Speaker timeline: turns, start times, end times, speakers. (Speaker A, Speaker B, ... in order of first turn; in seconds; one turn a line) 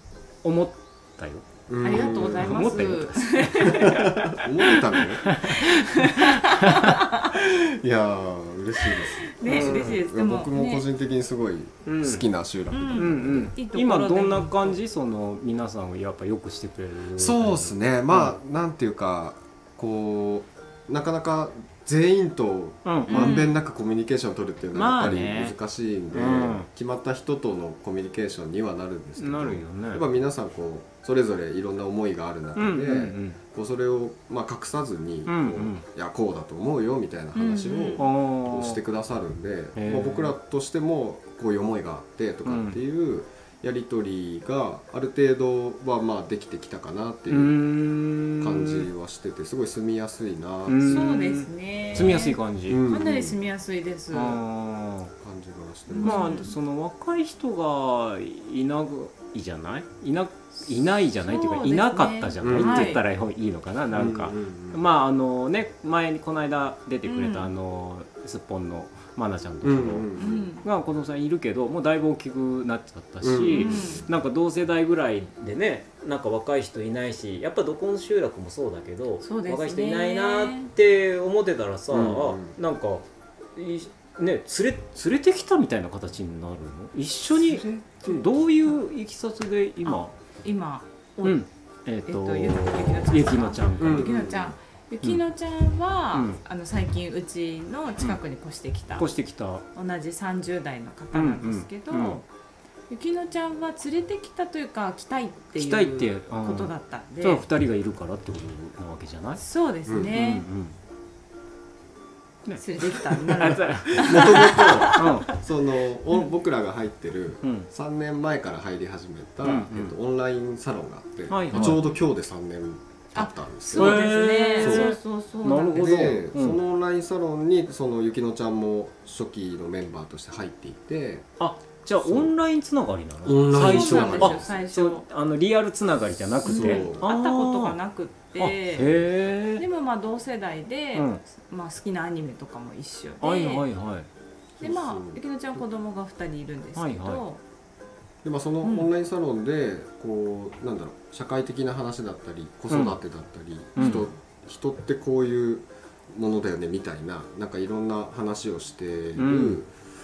Speaker A: 0.4-4.2
Speaker B: 1.7-2.8
Speaker C: 1.8-4.2
Speaker B: 3.6-5.4
Speaker A: 5.2-7.0
Speaker C: 5.5-7.3
Speaker B: 7.3-13.5
Speaker C: 9.3-10.8
Speaker A: 9.5-10.0
Speaker A: 11.9-12.2
Speaker C: 12.7-14.8
Speaker A: 12.9-18.3
Speaker B: 17.2-47.5
Speaker A: 22.9-23.4
Speaker C: 23.1-23.5
Speaker A: 24.7-25.6
Speaker A: 26.1-26.7
Speaker A: 29.2-30.0
Speaker A: 32.6-33.4
Speaker A: 35.3-35.8
Speaker C: 37.4-38.1
Speaker A: 38.0-38.8
Speaker A: 39.8-40.3
Speaker A: 42.5-42.8
Speaker A: 47.3-48.9
Speaker B: 48.4-51.1
Speaker A: 50.7-52.8
Speaker C: 50.8-54.4
Speaker B: 52.0-53.4
Speaker A: 54.1-55.1
Speaker B: 55.2-56.4
Speaker C: 55.9-56.5
Speaker A: 56.0-70.1
Speaker C: 61.2-63.0
Speaker B: 62.4-63.0
Speaker B: 63.9-64.8
Speaker C: 67.1-67.5
Speaker B: 69.6-70.5
Speaker C: 70.2-70.6
Speaker A: 70.6-90.1
Speaker B: 73.2-74.0
Speaker C: 73.5-74.0
Speaker C: 79.2-80.7
Speaker B: 81.9-82.6
Speaker C: 87.5-88.2
Speaker C: 89.8-91.4
Speaker A: 91.2-94.1
Speaker C: 92.1-99.1
Speaker B: 93.8-94.5
Speaker A: 96.1-96.4
Speaker A: 99.0-99.7
Speaker C: 99.7-102.3
Speaker A: 101.1-102.2
Speaker C: 102.9-107.4
Speaker A: 105.6-109.4
Speaker C: 109.4-110.5
Speaker A: 110.1-110.8
Speaker A: 112.5-115.3
Speaker C: 112.6-115.3
Speaker B: 114.0-124.9
Speaker A: 117.4-117.7
Speaker A: 119.4-119.9
Speaker A: 121.3-121.8
Speaker C: 123.2-126.2
Speaker A: 123.7-126.6
Speaker B: 125.8-131.3
Speaker A: 131.4-137.8
Speaker B: 132.0-132.3
Speaker B: 133.2-134.5
Speaker C: 133.5-135.1
Speaker B: 136.4-137.1
Speaker C: 136.4-139.0
Speaker A: 138.4-139.7
Speaker C: 139.6-143.6
Speaker A: 140.9-141.2
Speaker A: 143.2-144.1
Speaker B: 144.6-145.2
Speaker C: 144.6-147.4
Speaker A: 146.8-147.2
Speaker B: 148.2-159.7
Speaker C: 148.6-148.9
Speaker A: 152.7-153.0
Speaker A: 153.8-154.1
Speaker A: 159.2-159.6